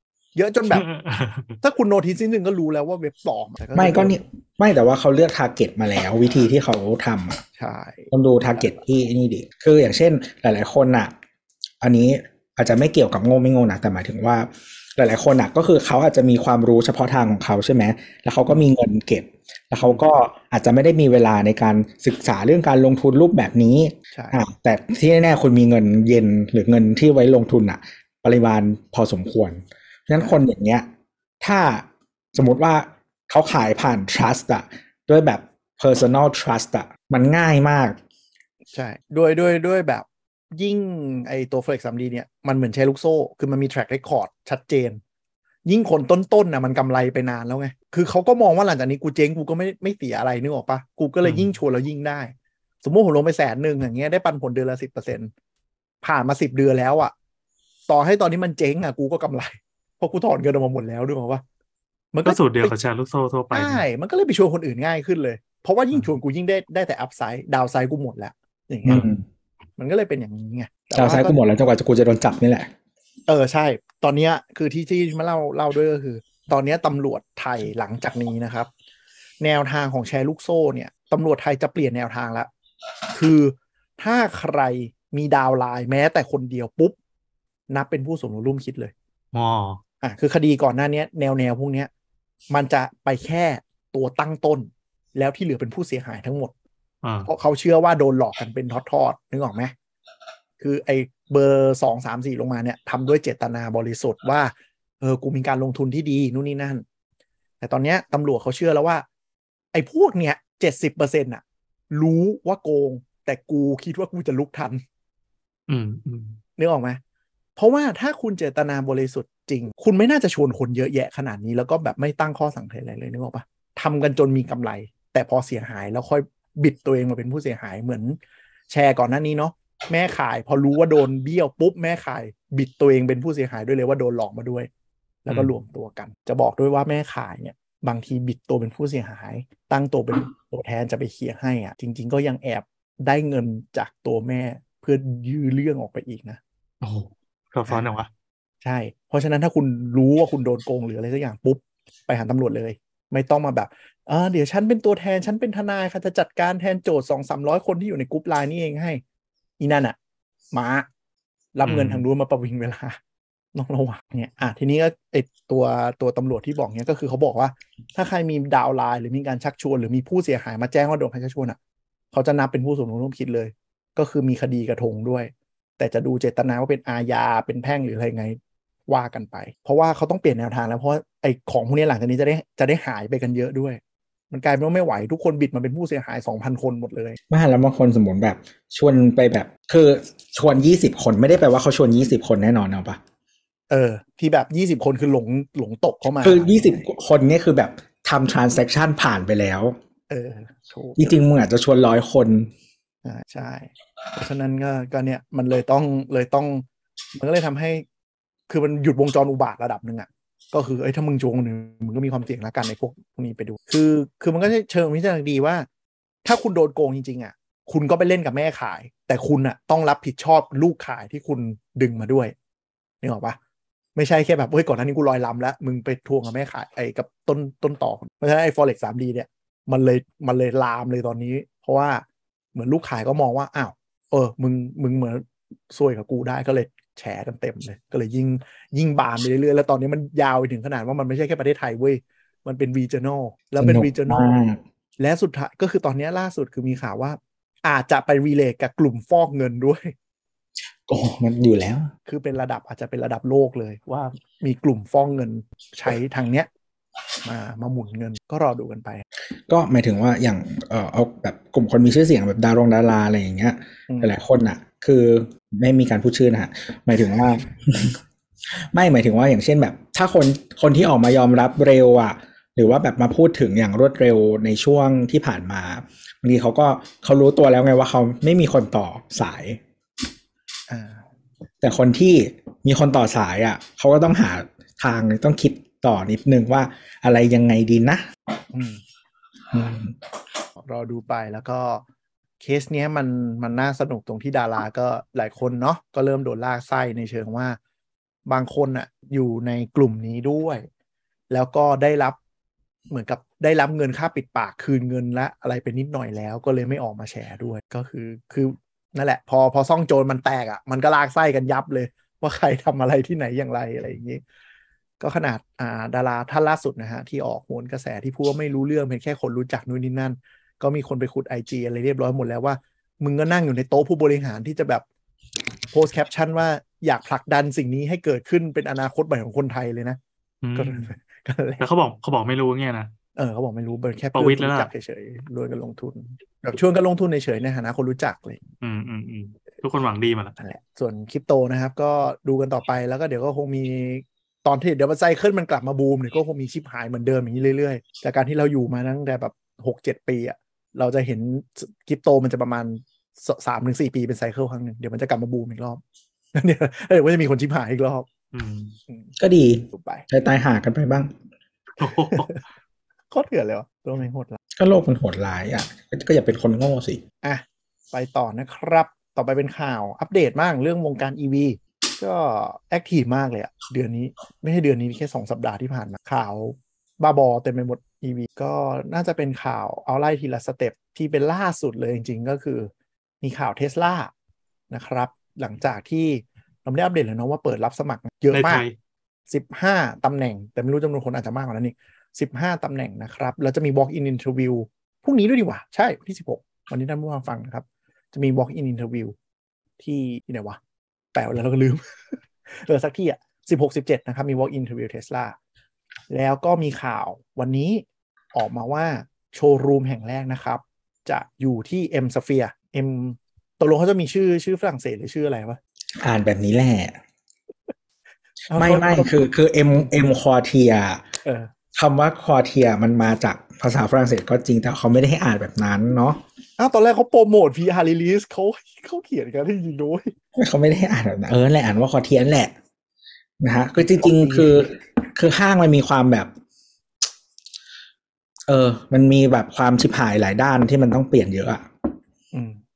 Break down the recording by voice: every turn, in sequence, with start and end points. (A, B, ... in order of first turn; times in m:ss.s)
0:00.4-0:00.9 A
0:00.7-0:01.6 B
0:01.6-0:04.2 A
0:03.8-0:07.4 C
0:07.6-0:08.7 A
0:08.1-0:11.1 C
0:11.8-0:30.9 C
0:24.1-0:24.4 A
0:31.4-0:38.0 C
0:38.7-0:45.0 A
0:45.7-0:55.3 A
0:51.2-0:51.5 B
0:56.0-0:57.1 A
0:57.9-1:01.4 A
1:02.1-1:02.7 A
1:02.2-1:03.8 B
1:03.5-1:09.1 A
1:08.9-1:09.2 C
1:09.8-1:11.4 A
1:10.9-1:12.7 C
1:13.3-1:18.7 A
1:19.4-1:22.5 A
1:23.1-1:27.0 A
1:27.7-1:28.9 A
1:29.3-1:29.8 B
1:30.0-1:31.9 A
1:32.5-1:36.5 A
1:37.0-1:37.3 B
1:37.3-1:39.7 A
1:40.6-1:46.8 A
1:47.6-1:49.1 A
1:49.7-1:54.8 A
1:55.7-1:56.4 B
1:56.6-1:57.0 A
1:57.6-2:08.2 A
2:08.7-2:14.7 A
2:15.2-2:26.4 A
2:26.8-2:28.1 B
2:28.6-2:39.0 A
2:39.6-2:40.0 A
2:40.5-2:40.9 A
2:41.6-2:43.0 A
2:41.7-2:42.0 B
2:43.5-2:51.6 A
2:52.1-3:03.8 A
3:04.3-3:07.2 A
3:07.3-3:13.0 C
3:13.7-3:16.8 A
3:16.2-3:19.8 C
3:20.1-3:21.2 A
3:21.0-3:22.5 C
3:23.0-3:26.6 A
3:27.2-3:27.8 A
3:28.5-3:35.7 A
3:36.2-3:42.4 A
3:43.0-3:43.4 A
3:44.0-4:04.3 A
4:03.6-4:04.6 C
4:05.0-4:09.9 A
4:10.9-4:11.9 C
4:12.1-4:16.5 A
4:17.2-4:19.0 A
4:19.5-4:39.6 C
4:23.9-4:24.2 A
4:40.7-4:41.0 A
4:41.6-4:48.1 C
4:48.5-4:48.8 A
4:49.5-4:50.0 C
4:50.6-4:51.8 A
4:52.4-4:57.6 A
4:58.3-5:00.7 A
5:01.3-5:02.2 A
5:02.9-5:14.2 A
5:15.0-5:24.8 A
5:25.7-5:30.0 A
5:30.4-5:30.9 B
5:30.6-5:31.6 A
5:31.6-5:32.9 B
5:33.2-5:38.4 A
5:34.2-5:34.7 B
5:38.6-5:40.3 B
5:40.4-5:55.8 A
5:56.4-5:58.1 A
5:58.3-5:58.8 B
5:59.2-6:01.1 C
5:59.7-6:00.0 A
6:01.8-6:02.3 B
6:02.0-6:02.4 A
6:03.1-6:04.4 A
6:04.6-6:07.0 C
6:07.2-6:22.7 A
6:23.2-6:24.1 A
6:24.7-6:28.6 A
6:28.3-6:28.8 B
6:29.3-6:39.1 A
6:39.8-6:40.6 A
6:41.1-6:45.4 A
6:46.1-6:55.6 A
6:56.0-6:57.0 C
6:58.5-6:59.1 A
6:58.5-7:01.0 C
7:01.2-7:01.5 A
7:01.8-7:06.2 C
7:06.6-7:10.1 A
7:10.4-7:12.5 C
7:13.4-7:16.3 C
7:13.8-7:14.8 A
7:18.5-7:21.7 C
7:22.3-7:22.6 A